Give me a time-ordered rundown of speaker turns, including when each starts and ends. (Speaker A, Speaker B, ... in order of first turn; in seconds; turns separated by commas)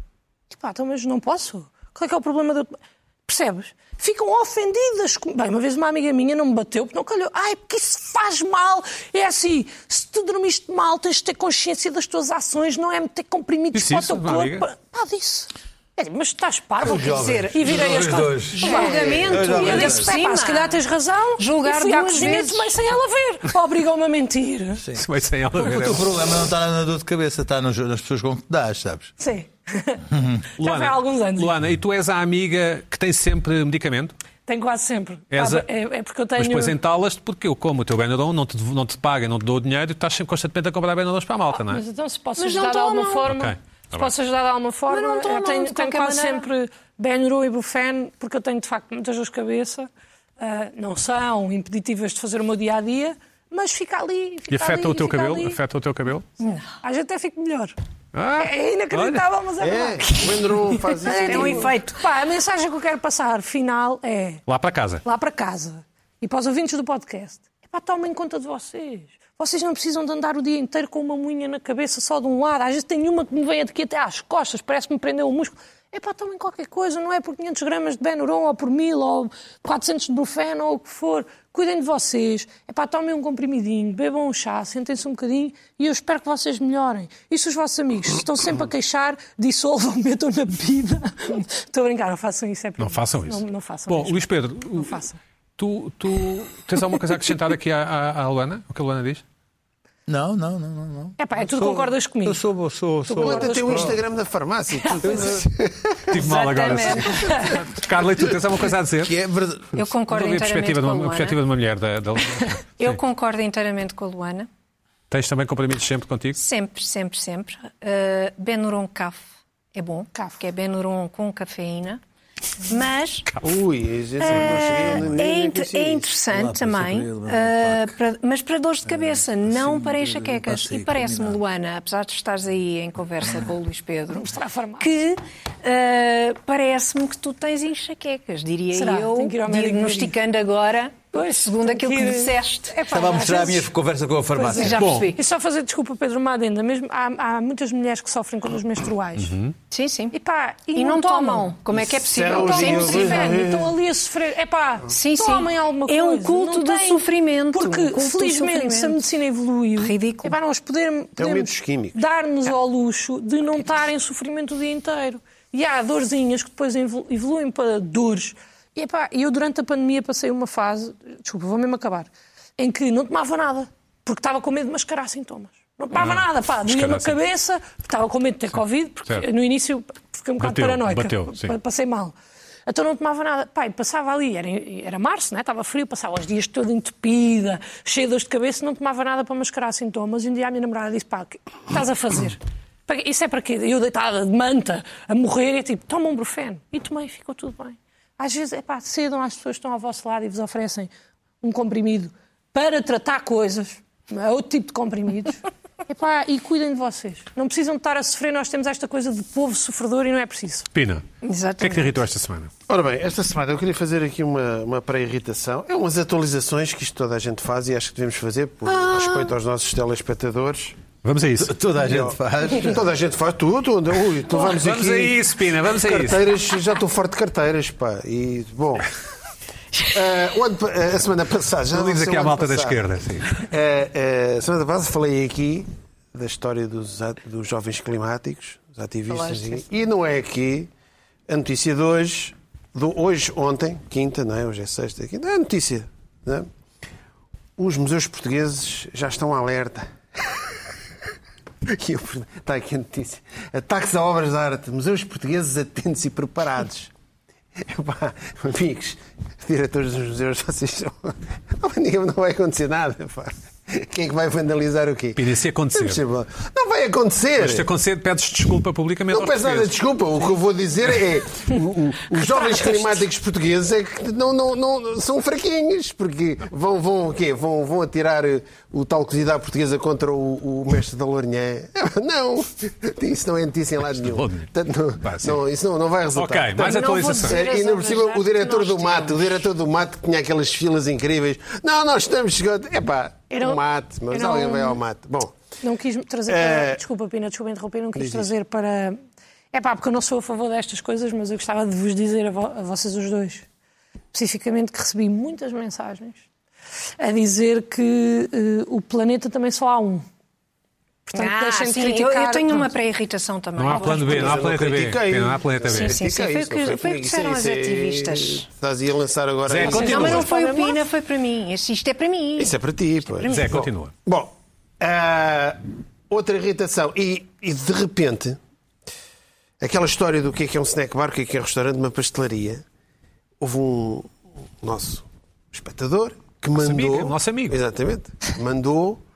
Speaker A: 0.5-24.8, Speaker B: 13.7-14.7, Speaker C: 16.8-20.1, Speaker D: 16.8-20.8, Speaker D: 21.4-22.7, Speaker C: 24.8-29.1, Speaker B: 24.9-26.0, Speaker A: 29.2-30.0, Speaker C: 30.1-30.4, Speaker B: 30.6-34.1, Speaker A: 30.6-31.5, Speaker A: 34.5-36.7, Speaker B: 35.3-35.6, Speaker B: 36.4-41.8, Speaker A: 41.5-55.6, Speaker D: 42.4-43.3, Speaker B: 43.3-44.1, Speaker D: 44.9-46.4, Speaker B: 54.5-56.2, Speaker D: 56.4-56.7, Speaker A: 56.8-57.7, Speaker B: 58.1-59.2, Speaker A: 58.4-64.4, Speaker E: 59.6-61.7, Speaker D: 61.1-62.0, Speaker B: 64.5-65.0, Speaker A: 65.0-95.2, Speaker B: 92.8-95.0, Speaker B: 95.6-99.2, Speaker C: 100.1-104.0, Speaker A: 101.2-102.4, Speaker A: 103.1-104.0, Speaker E: 103.1-106.1, Speaker A: 104.8-105.3, Speaker B: 106.1-109.1, Speaker D: 106.1-107.6, Speaker A: 107.2-107.6, Speaker C: 109.0-109.8, Speaker D: 109.7-111.4, Speaker B: 110.1-113.0, Speaker D: 112.8-114.5, Speaker B: 115.1-116.4, Speaker D: 116.4-122.0, Speaker A: 120.1-120.4, Speaker D: 122.7-123.3, Speaker E: 123.4-126.1, Speaker D: 124.2-142.8, Speaker B: 124.2-125.0, Speaker C: 126.3-127.9, Speaker C: 128.8-131.4, Speaker A: 134.1-135.0, Speaker A: 138.7-140.1, Speaker A: 141.1-143.7, Speaker C: 142.9-144.9, Speaker A: 144.3-149.3, Speaker D: 144.5-145.2, Speaker B: 144.8-145.1, Speaker B: 149.2-149.5, Speaker D: 149.7-150.2, Speaker A: 150.1-151.5, Speaker D: 150.7-153.4, Speaker E: 151.8-153.7, Speaker A: 152.3-182.1, Speaker D: 154.9-159.0, Speaker D: 159.8-160.3, Speaker E: 161.2-162.0, Speaker B: 175.9-177.2, Speaker B: 180.4-181.5, Speaker A: 182.7-200.9, Speaker A: 201.4-210.7, Speaker B: 210.7-211.0, Speaker D: 211.2-211.9, Speaker B: 211.6-212.5, Speaker E: 212.7-220.8, Speaker D: 218.7-219.3, Speaker B: 221.0-221.5, Speaker C: 221.4-222.8, Speaker E: 221.8-228.9, Speaker B: 224.3-226.2, Speaker E: 229.8-232.8, Speaker B: 231.7-233.4, Speaker E: 233.3-240.7, Speaker D: 239.1-239.6, Speaker E: 241.3-246.5, Speaker E: 247.6-250.5, Speaker E: 251.7-256.9, Speaker E: 257.6-267.7, Speaker B: 265.1-266.0, Speaker B: 267.4-269.8, Speaker E: 269.1-295.3, Speaker B: 283.9-285.4, Speaker B: 286.1-287.4, Speaker D: 286.6-289.4, Speaker A: 293.3-294.8, Speaker A: 295.6-299.0, Speaker E: 296.3-296.8, Speaker E: 297.9-298.3, Speaker A: 299.5-303.4, Speaker A: 304.1-306.2, Speaker A: 307.0-310.0, Speaker A: 311.1-312.7, Speaker D: 311.1-314.4, Speaker B: 313.6-316.0, Speaker E: 313.7-320.5, Speaker D: 315.6-318.4, Speaker B: 319.4-320.3, Speaker D: 319.6-322.6, Speaker A: 320.3-320.6, Speaker E: 322.4-328.4, Speaker D: 323.1-323.6, Speaker B: 323.2-323.9, Speaker E: 329.6-332.6, Speaker E: 333.4-339.0, Speaker B: 336.5-337.6